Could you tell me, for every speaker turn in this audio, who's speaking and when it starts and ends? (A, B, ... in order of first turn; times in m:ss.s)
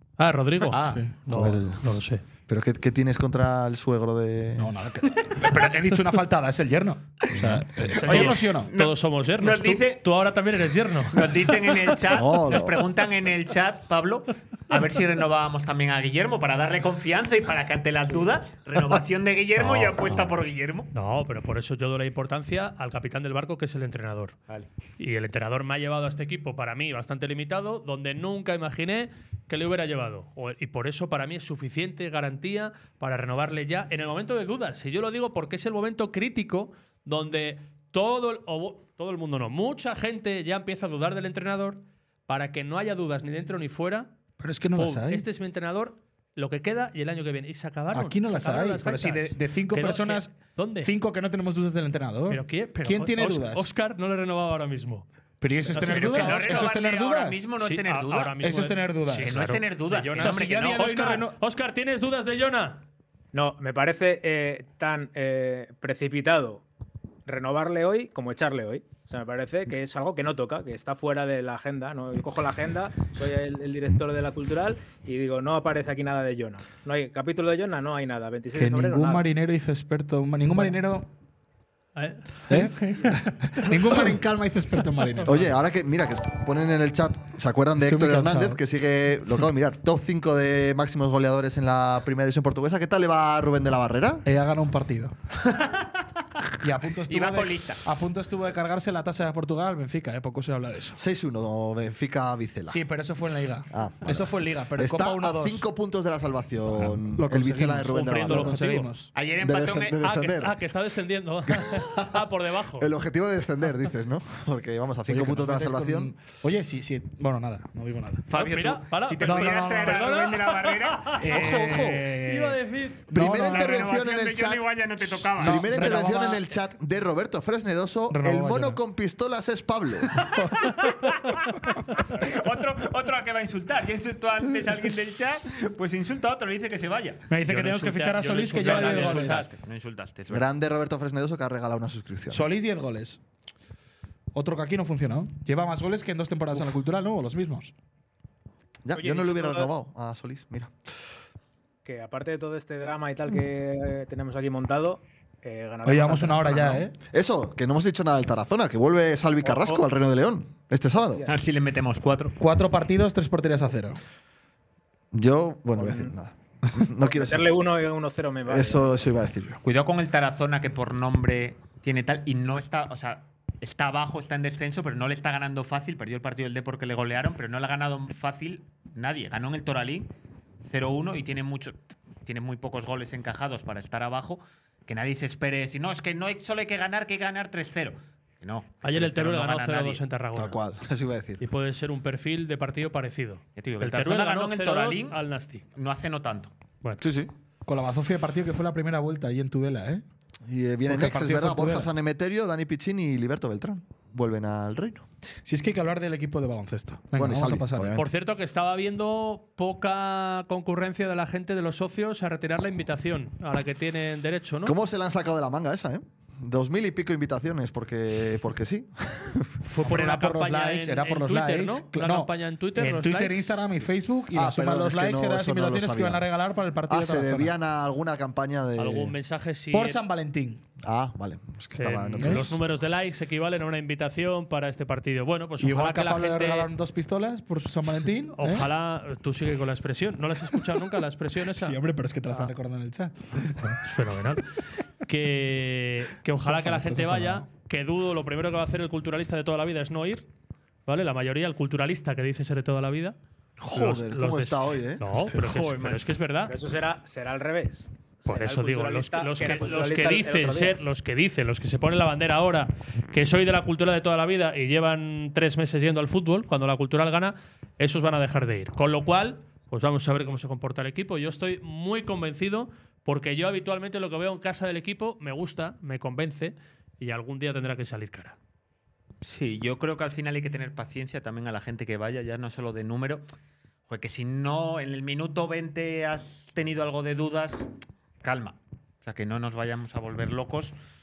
0:00.2-0:02.2 A
0:00.7-0:01.2 B
0:01.3-0:01.8 C
0:02.5-0:04.7 C
0:04.6-0:08.7 B
0:07.4-0:07.6 C
0:07.9-0:11.9 A
0:08.0-0:10.0 D
0:11.1-0:20.9 D
0:12.1-0:12.9 C
0:19.6-0:20.3 A
0:20.9-0:24.4 A
0:25.0-0:44.1 A
0:44.4-0:45.2 B
0:44.7-0:50.9 A
0:47.9-0:53.6 B
0:52.3-0:55.0 A
0:55.4-0:57.4 B
0:55.7-0:56.8 A
0:55.7-0:58.5 D
0:57.6-1:02.8 A
0:58.4-0:59.5 B
0:59.1-1:01.2 D
1:00.1-1:01.4 B
1:03.3-1:06.6 E
1:07.2-1:19.3 E
1:18.5-1:21.1 B
1:22.0-1:23.1 A
1:22.5-1:25.5 B
1:25.2-1:34.2 C
1:27.8-1:28.6 B
1:34.2-1:35.1 B
1:35.5-1:36.0 D
1:36.6-1:41.0 B
1:37.1-1:37.8 D
1:41.0-1:42.8 C
1:42.7-1:45.6 B
1:43.7-1:48.5 C
1:46.8-1:49.1 B
1:47.8-1:48.9 A
1:49.1-1:50.0 D
1:49.4-1:50.6 C
1:50.0-1:52.9 A
1:51.5-1:52.2 C
1:52.8-1:56.1 C
1:55.1-1:58.2 B
1:58.3-2:01.9 D
1:58.3-2:01.4 A
1:59.2-2:00.0 B
2:01.3-2:02.1 C
2:01.3-2:02.6 B
2:02.2-2:03.2 A
2:03.1-2:04.0 B
2:03.1-2:04.7 C
2:03.2-2:05.8 D
2:05.4-2:06.4 B
2:05.4-2:10.2 C
2:08.1-2:08.8 B
2:12.1-2:17.2 D
2:17.3-2:19.5 B
2:17.5-2:19.5 A
2:18.5-2:20.5 D
2:20.3-2:22.5 C
2:22.3-2:23.2 B
2:24.3-2:27.7 B
2:28.8-2:30.7 C
2:28.9-2:29.7 E
2:31.8-2:36.8 E
2:35.8-2:37.0 B
2:37.1-2:41.3 C
2:39.4-2:39.8 E
2:41.3-2:42.4 D
2:42.4-2:44.0 B
2:45.1-2:47.5 C
2:45.8-2:46.1 E
2:47.0-2:48.9 E
2:48.4-2:49.6 C
2:49.6-3:00.1 D
3:00.6-3:10.0 D
3:08.8-3:10.6 A
3:10.4-3:11.4 C
3:11.4-3:15.6 A
3:13.6-3:15.2 D
3:15.7-3:16.5 D
3:17.0-3:17.3 C
3:17.6-3:20.0 B
3:20.4-3:25.0 C
3:20.9-3:21.9 B
3:25.4-3:28.0 B
3:27.2-3:28.1 C
3:27.9-3:34.7 A
3:34.6-3:39.5 C
3:39.7-3:47.5 B
3:39.8-3:43.6 A
3:44.3-3:46.3 C
3:46.9-3:49.1 C
3:48.8-3:50.0 A
3:49.7-3:50.6 B
3:50.8-3:52.5 C
3:51.8-3:56.7 A
3:52.2-3:52.5 B
3:55.6-3:58.7 B
3:58.3-4:01.8 A
4:01.5-4:03.8 B
4:03.6-4:04.4 A
4:05.0-4:10.3 A
4:06.4-4:07.5 B
4:10.9-4:13.2 A
4:13.6-4:15.0 C
4:13.7-4:16.5 A
4:15.1-4:15.4 B
4:15.4-4:16.1 D
4:16.4-4:20.8 E
4:18.2-4:38.4 A
4:39.2-4:43.2 D
4:43.9-4:47.7 D
4:48.2-4:50.7 D